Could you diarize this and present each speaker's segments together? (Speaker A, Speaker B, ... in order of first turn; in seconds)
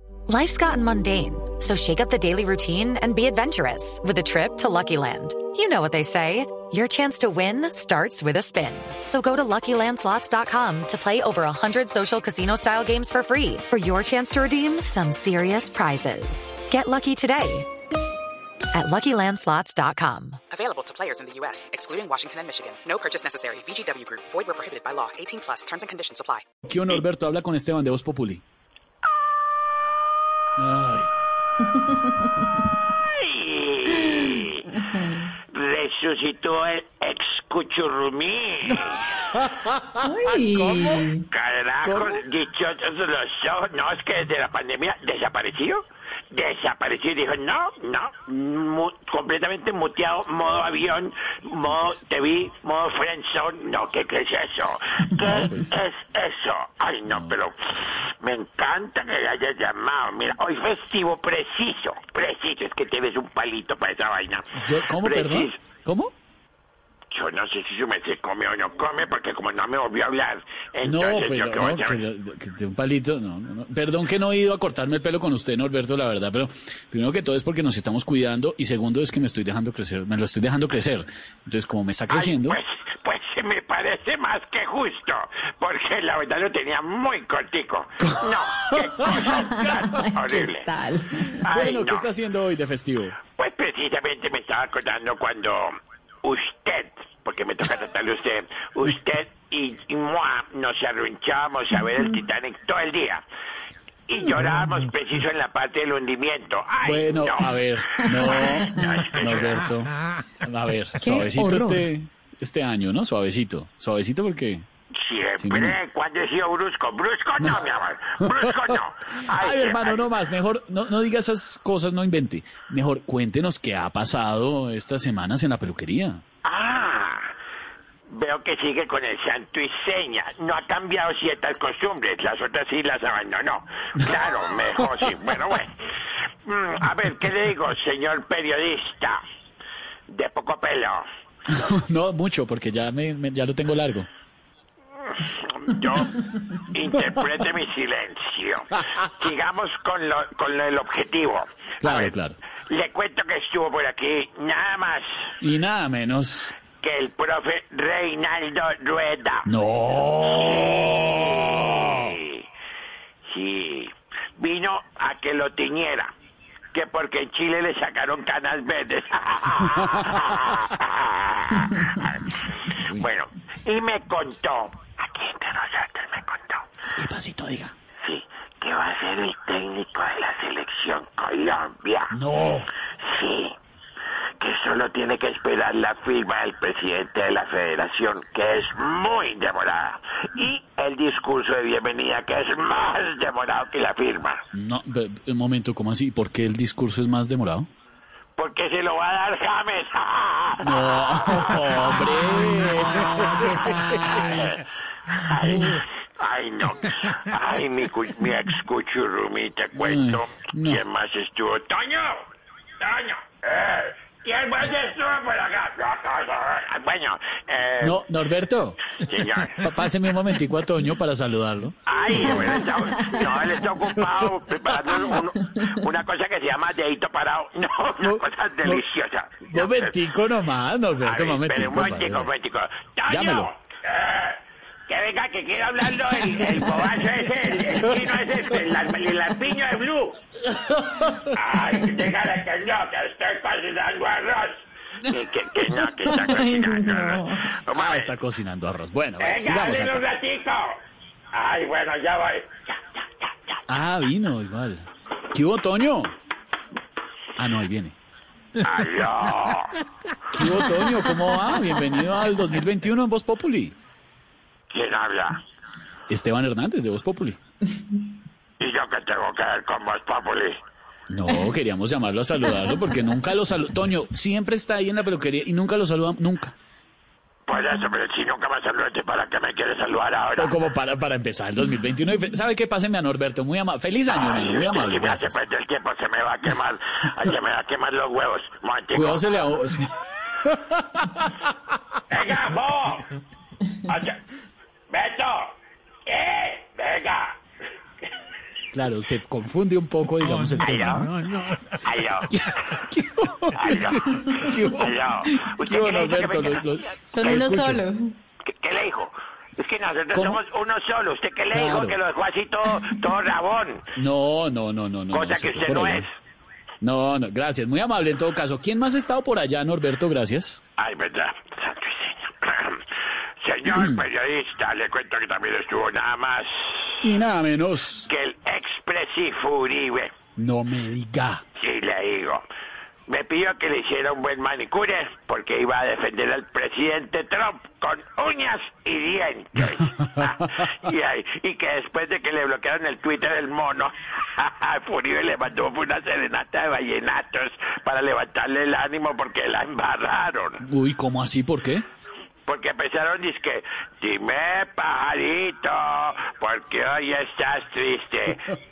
Speaker A: 0.3-17.7, 18.7-20.4
Speaker B: 20.5-26.4
Speaker C: 26.7-28.4, 30.6-31.1, 39.3-41.0, 41.8-42.2, 55.2-55.7, 57.1-57.3, 64.6-66.1, 70.8-82.6, 88.0-89.1, 91.4-93.2, 106.8-114.6, 115.4-115.8, 117.4-117.7, 118.2-126.2, 141.5-144.1, 151.8-152.4, 155.4-156.6, 159.4-162.1, 172.7-173.1, 176.9-177.7, 182.1-182.7, 194.5-197.7, 200.6-204.4, 209.8-210.8, 217.8-218.8, 219.4-222.4, 228.0-228.8, 229.4-232.3, 233.1-233.5, 240.4-241.3, 247.7-250.1, 253.7-256.1, 257.4-257.9, 260.3-263.7, 266.1-267.4, 271.1-276.5, 280.4-285.4, 288.9-289.9, 290.4-291.3, 298.7-301.3, 302.3-307.8, 310.1-310.4, 311.5-312.0, 313.9-316.1, 316.8-320.6, 323.7-324.0, 327.0-328.1, 330.4-331.4, 350.6-351.8
Speaker D: 31.8-32.1, 34.9-35.2, 40.0-41.2, 89.1-91.5, 108.1-108.9, 111.0-111.8, 202.0-204.5, 205.5-205.8, 245.8-247.6, 307.0-308.1
Speaker E: 33.1-34.8, 35.5-39.2, 41.3-65.6, 67.1-72.0, 82.1-90.7, 91.4-92.1, 93.3-95.7, 96.2-103.2, 104.1-107.6, 108.2-109.7, 115.0-120.2, 126.4-127.3, 128.1-135.7, 136.4-139.2, 140.1-141.0, 145.0-152.1, 152.7-155.3, 156.6-159.5, 160.2-162.4, 163.3-166.1, 166.7-172.4, 172.9-176.6, 178.0-182.1, 183.0-183.5, 184.4-194.4, 198.4-201.8, 204.2-212.2, 212.8-218.0, 218.9-219.6, 221.8-230.1, 231.0-234.4, 234.9-240.2, 241.3-248.1, 249.2-250.7, 251.3-252.5, 258.6-259.7, 264.7-265.4, 268.6-270.6, 277.5-280.5, 284.1-289.2, 292.1-293.1, 293.8-294.1, 294.9-295.5, 296.1-297.3, 300.6-301.1, 301.8-302.4, 303.5-306.6, 307.2-307.6, 308.4-313.9, 315.1-316.1, 320.8-322.8, 323.4-326.9, 328.0-330.1, 331.6-332.4, 333.1-350.6, 352.5-358.5